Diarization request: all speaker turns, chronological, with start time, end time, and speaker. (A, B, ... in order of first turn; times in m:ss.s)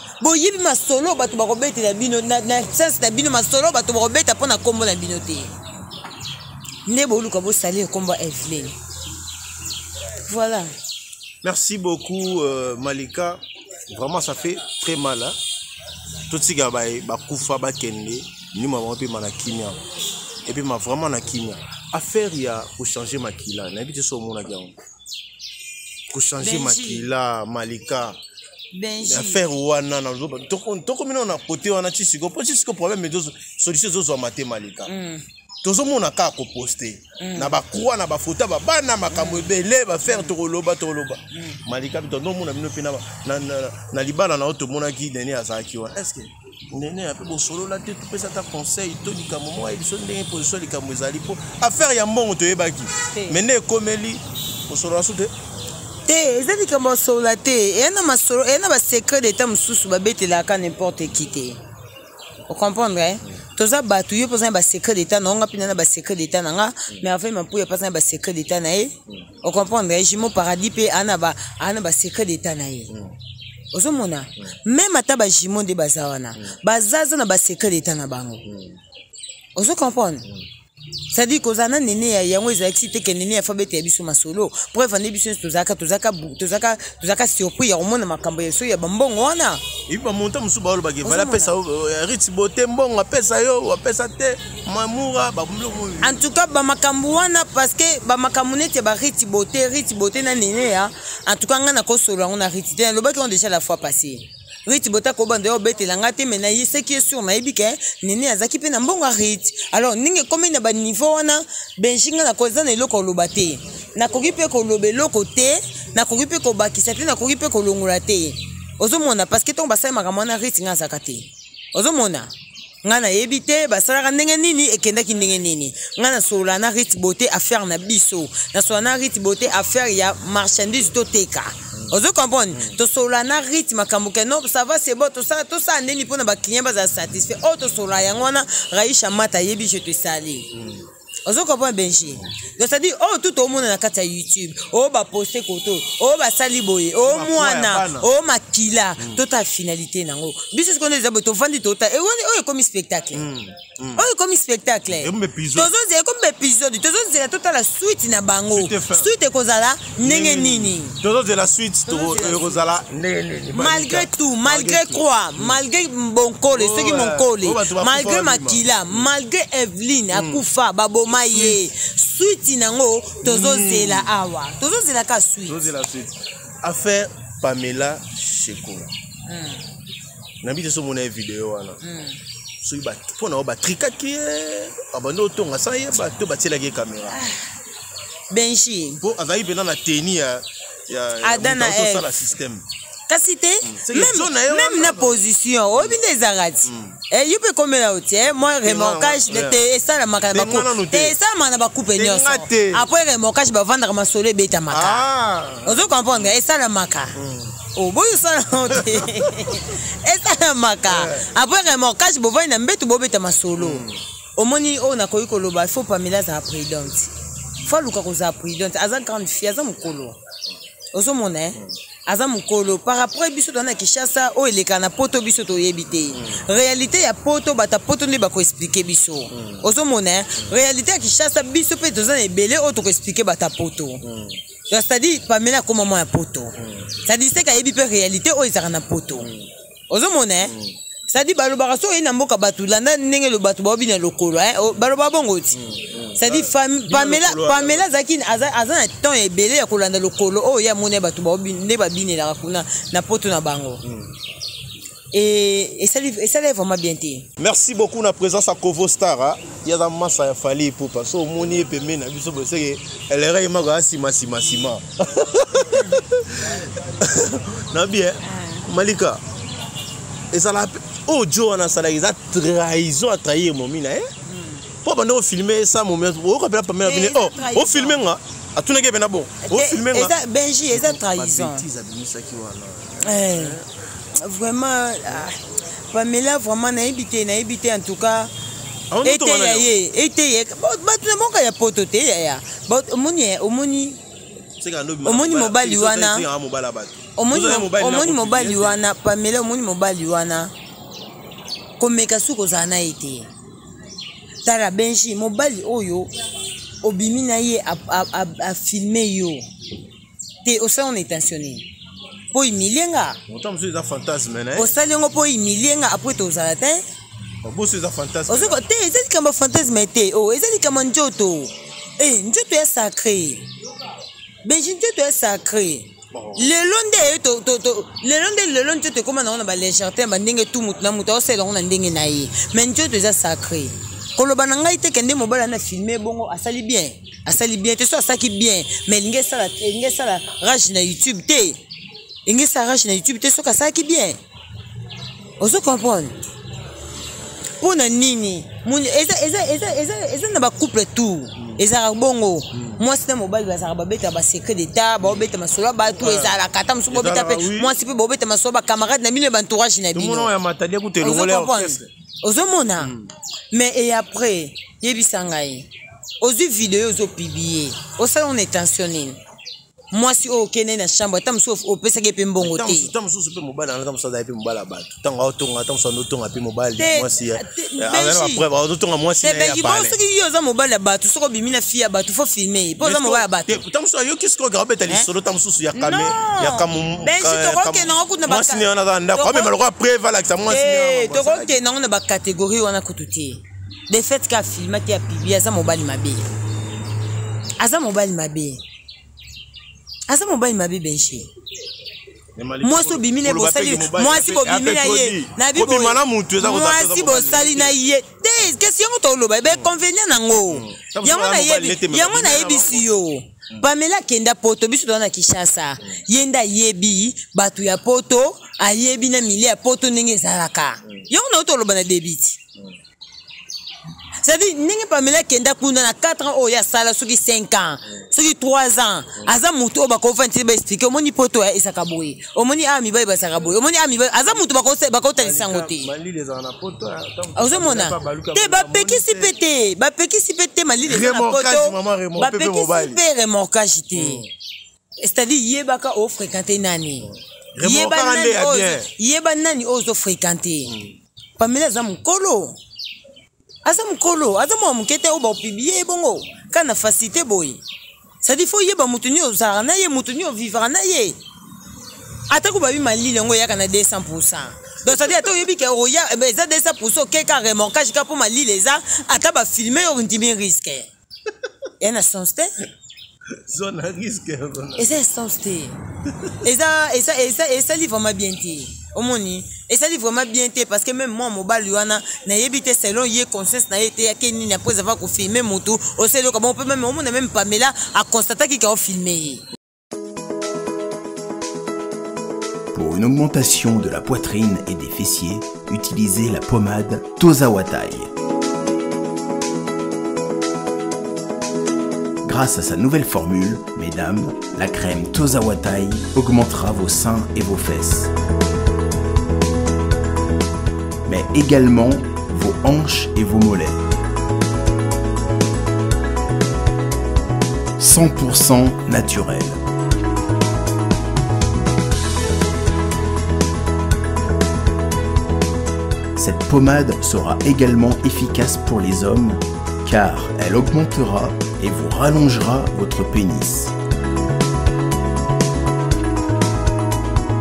0:00.2-0:05.5 A
0:06.9-0:08.8 A
0:10.2-0:10.7 A
0:11.4-0:15.4 B
0:16.3-0:19.8 B
0:20.4-0:24.8 B
0:26.1-0:28.2 B
0:26.4-0:27.1 A
0:28.7-0:29.4 A
0:29.1-0:34.9 B
0:34.9-0:35.2 A
0:35.6-0:55.3 B
0:37.2-0:37.6 A
0:39.1-0:39.5 A
0:40.1-0:40.3 A
0:41.3-0:41.6 A
0:53.1-0:53.4 A
0:56.1-1:01.6 A
1:02.5-1:12.9 A
1:12.9-1:13.2 B
1:13.7-1:18.4 A
1:18.5-1:18.8 B
1:19.6-1:20.3 A
1:21.1-1:29.6 A
1:29.9-1:36.2 B
1:31.0-1:31.6 A
1:36.0-2:02.3 A
2:02.8-2:20.5 A
2:20.5-2:20.8 B
2:21.3-2:33.2 A
2:27.0-2:28.1 B
2:33.1-2:34.1 B
2:34.0-2:41.0 A
2:34.9-2:35.7 B
2:38.5-2:39.1 B
2:40.0-2:45.6 B
2:41.9-2:42.7 A
2:43.5-2:55.7 A
2:46.5-2:49.1 B
2:50.1-2:50.4 B
2:51.2-2:51.6 B
2:53.2-2:54.1 B
2:55.5-2:58.9 B
2:59.3-2:59.6 A
3:00.4-3:01.8 B
3:01.8-3:02.2 A
3:02.6-3:07.2 B
3:07.1-3:07.5 A
3:08.3-3:09.0 A
3:09.0-3:12.6 B
3:11.2-3:12.2 A
3:13.1-3:25.1 A
3:13.6-3:15.2 B
3:16.6-3:17.0 B
3:18.6-3:19.6 B
3:20.3-3:21.2 B
3:22.0-3:22.9 B
3:24.7-3:26.3 B
3:25.6-3:27.2 A
3:27.2-3:27.5 B
3:27.7-3:33.9 A
3:28.7-3:29.6 B
3:30.9-3:31.3 B
3:33.6-3:34.0 B
3:34.4-3:40.2 A
3:40.9-3:54.0 A
3:46.1-3:46.4 B
3:49.3-3:49.7 B
3:54.0-3:54.4 B
3:54.7-3:56.5 A
3:56.6-3:56.9 B
3:57.0-3:59.3 A
3:59.2-3:59.5 B
3:59.9-4:00.6 A
4:00.4-4:00.8 B
4:01.1-4:05.6 A
4:05.6-4:07.9 B
4:06.2-4:13.8 A
4:13.8-4:14.1 B
4:15.1-4:17.3 A
4:17.4-4:29.2 B
4:25.6-4:26.0 A
4:28.3-4:28.6 A
4:30.3-4:34.1 B
4:34.3-4:34.6 A
4:34.8-4:40.2 B
4:36.8-4:38.0 A
4:39.5-4:41.6 A
4:40.7-4:43.7 B
4:43.0-4:43.6 A
4:44.1-4:48.3 A
4:48.9-4:49.7 B
4:49.0-4:54.0 A
4:54.6-4:58.8 B
4:55.0-4:56.3 A
4:57.2-5:00.5 A
5:01.8-5:03.3 A
5:04.4-5:06.1 A
5:06.8-5:09.4 A
5:10.4-5:11.7 A
5:12.3-5:13.2 A
5:13.3-5:14.7 B
5:14.6-5:16.8 A
5:17.4-5:18.6 B
5:18.3-5:23.4 A
5:24.4-5:41.6 A
5:26.1-5:26.5 B
5:42.3-5:44.2 A
5:45.4-5:46.2 A
5:47.6-6:00.4 A
5:52.5-5:52.8 B
5:56.0-5:56.3 B
5:56.9-5:57.8 B
5:59.9-6:01.9 B
6:01.0-6:02.9 A
6:02.8-6:03.1 B
6:03.5-6:05.7 A
6:06.2-6:09.2 A
6:09.9-6:12.9 A
6:12.4-6:20.0 B
6:16.8-6:18.4 A
6:19.2-6:23.6 A
6:22.8-6:31.6 B
6:25.7-6:29.5 A
6:30.5-6:36.3 A
6:37.6-6:38.6 A
6:40.1-6:41.3 A
6:42.4-6:47.8 B
6:42.6-7:02.4 A
6:50.4-6:52.9 B
7:04.2-7:15.9 A
7:15.2-7:19.4 B
7:17.4-7:24.3 A
7:20.8-7:23.0 B
7:24.0-7:24.3 B
7:25.0-7:30.8 A
7:27.1-7:28.9 B
7:30.7-7:30.9 B
7:31.4-7:32.6 A
7:33.6-7:37.6 A
7:38.2-7:41.2 A
7:42.3-7:50.9 A
7:51.8-7:52.5 A
7:53.5-7:55.0 B
7:54.8-7:55.8 A
7:56.4-8:09.4 A
8:12.7-8:18.1 C
8:22.2-8:28.1 C
8:31.1-8:33.8 C
8:37.8-8:39.6 C
8:46.2-8:53.7 C